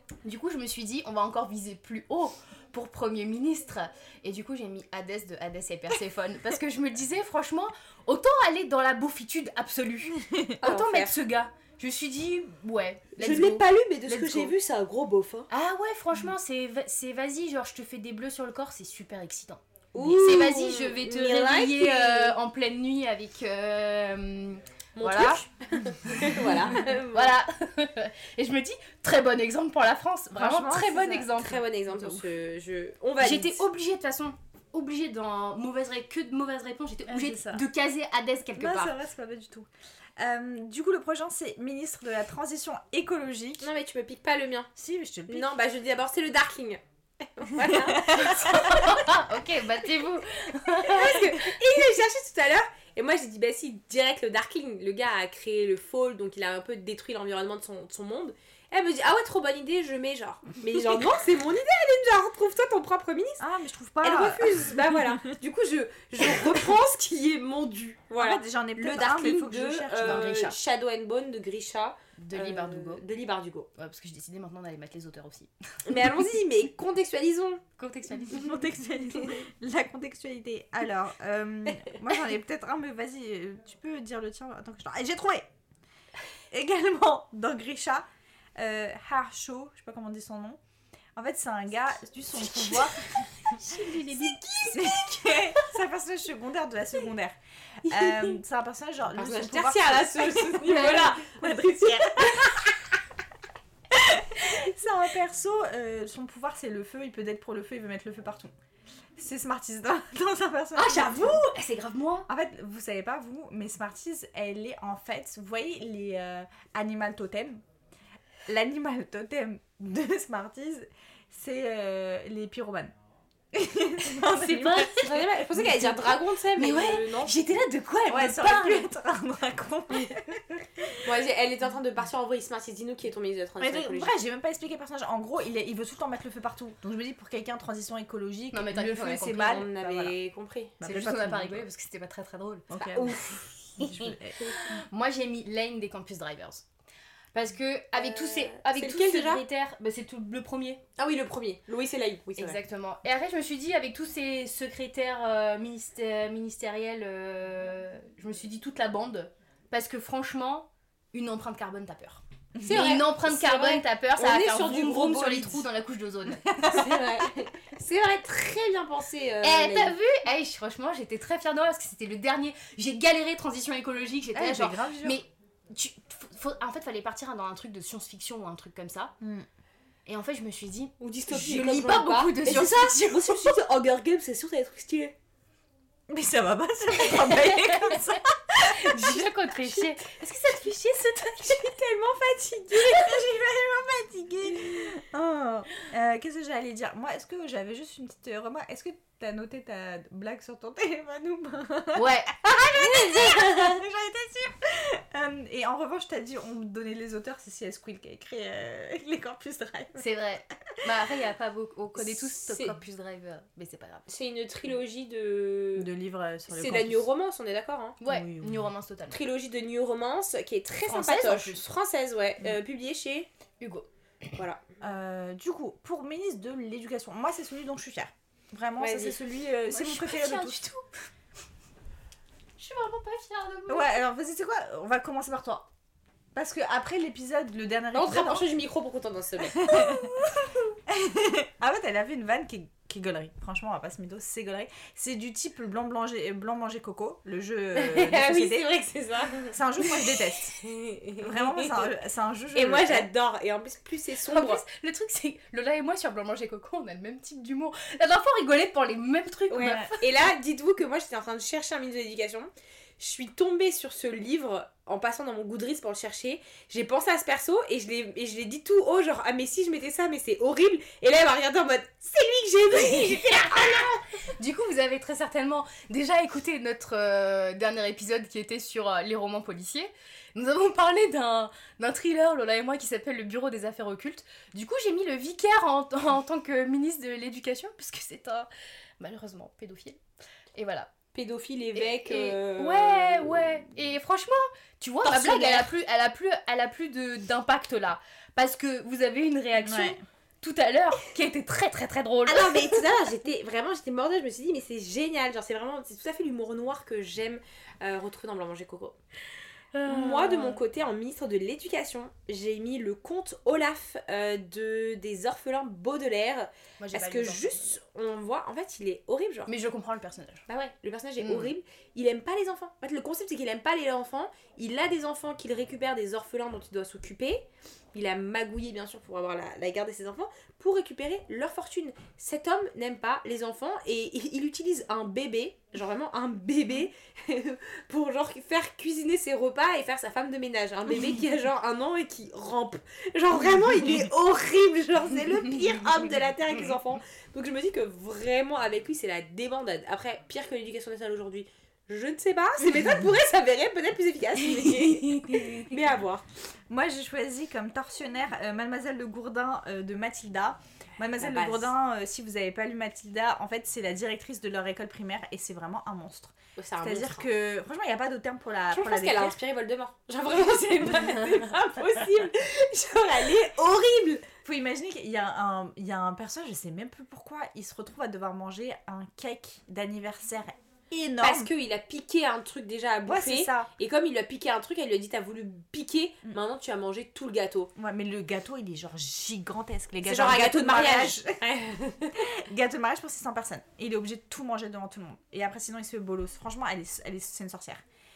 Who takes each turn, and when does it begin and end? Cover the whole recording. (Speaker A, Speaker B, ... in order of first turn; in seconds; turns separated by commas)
Speaker A: 0.2-14.5, Speaker B: 10.1-10.6, Speaker C: 10.6-11.2, Speaker C: 13.2-15.5, Speaker A: 15.5-25.4, Speaker C: 19.9-22.4, Speaker C: 24.9-27.4, Speaker A: 26.3-32.2, Speaker B: 30.3-31.3, Speaker C: 31.3-33.6, Speaker A: 33.2-39.0, Speaker B: 37.1-37.6, Speaker B: 38.5-43.7, Speaker C: 43.6-44.7, Speaker B: 44.8-45.5, Speaker C: 45.3-46.8, Speaker C: 47.4-48.4, Speaker B: 47.6-48.6, Speaker A: 48.1-51.7, Speaker C: 50.8-63.4, Speaker B: 63.4-65.0, Speaker C: 64.0-73.7, Speaker B: 68.2-70.3, Speaker A: 70.0-70.6, Speaker A: 72.2-73.0, Speaker A: 73.8-75.5, Speaker C: 75.8-77.6, Speaker A: 77.8-78.6, Speaker B: 78.2-85.5, Speaker B: 86.5-90.6, Speaker B: 91.2-93.2, Speaker A: 93.4-95.2, Speaker B: 94.7-102.6, Speaker C: 98.0-98.3, Speaker C: 99.1-102.5, Speaker A: 100.7-101.0, Speaker B: 103.9-108.5, Speaker B: 109.2-111.4, Speaker A: 110.7-112.3, Speaker B: 112.3-117.6, Speaker B: 118.5-122.9, Speaker B: 123.5-126.0, Speaker A: 124.2-125.2, Speaker C: 124.8-127.3, Speaker A: 126.6-128.9, Speaker B: 128.1-131.0, Speaker C: 131.0-134.1, Speaker B: 133.6-140.1, Speaker A: 138.5-139.6, Speaker C: 139.4-140.8, Speaker B: 140.8-141.6, Speaker A: 140.8-142.7, Speaker B: 142.7-144.8, Speaker C: 142.8-144.7, Speaker A: 144.9-146.6, Speaker A: 147.3-150.8, Speaker C: 147.9-149.4, Speaker C: 151.0-152.6, Speaker A: 152.4-166.5, Speaker C: 162.6-165.7, Speaker B: 166.4-166.8, Speaker C: 166.6-169.9, Speaker A: 169.4-179.1, Speaker B: 174.3-175.2, Speaker B: 179.2-179.5, Speaker A: 180.1-183.6, Speaker C: 181.0-185.1, Speaker B: 182.4-182.9, Speaker B: 186.1-189.3, Speaker A: 187.1-188.0, Speaker A: 188.7-191.7, Speaker C: 191.4-193.2, Speaker B: 192.9-210.0, Speaker A: 201.9-203.8, Speaker A: 209.9-214.1, Speaker C: 212.1-212.8, Speaker C: 214.1-215.9, Speaker B: 215.8-217.1, Speaker C: 216.5-218.0, Speaker A: 218.0-219.2, Speaker B: 218.0-218.7, Speaker C: 219.1-223.3, Speaker A: 220.8-221.6, Speaker A: 223.6-224.3, Speaker C: 224.4-224.6, Speaker B: 224.8-230.6, Speaker C: 228.8-229.2, Speaker A: 229.7-230.8, Speaker A: 232.6-234.0, Speaker B: 233.7-235.7, Speaker B: 236.3-238.5, Speaker C: 237.9-240.1, Speaker B: 239.4-248.7, Speaker C: 247.7-251.9, Speaker B: 249.5-250.5, Speaker B: 251.2-253.1, Speaker C: 252.5-254.6, Speaker A: 254.3-260.0, Speaker C: 259.5-273.9, Speaker A: 272.7-288.5, Speaker A: 289.0-290.0, Speaker A: 290.5-290.9, Speaker C: 291.1-293.4, Speaker A: 291.8-302.8, Speaker C: 295.0-295.7, Speaker B: 299.6-300.0, Speaker C: 302.2-309.0, Speaker A: 309.7-310.6, Speaker C: 309.9-319.5, Speaker A: 316.8-317.8, Speaker A: 319.5-320.4, Speaker C: 320.5-356.2, Speaker A: 321.2-321.5, Speaker B: 356.7-369.4, Speaker C: 361.2-361.7, Speaker C: 366.6-367.3, Speaker C: 368.7-374.3, Speaker B: 374.4-381.5, Speaker C: 381.2-387.7, Speaker B: 383.0-383.7, Speaker B: 387.8-391.4, Speaker C: 390.0-392.2, Speaker B: 392.1-397.8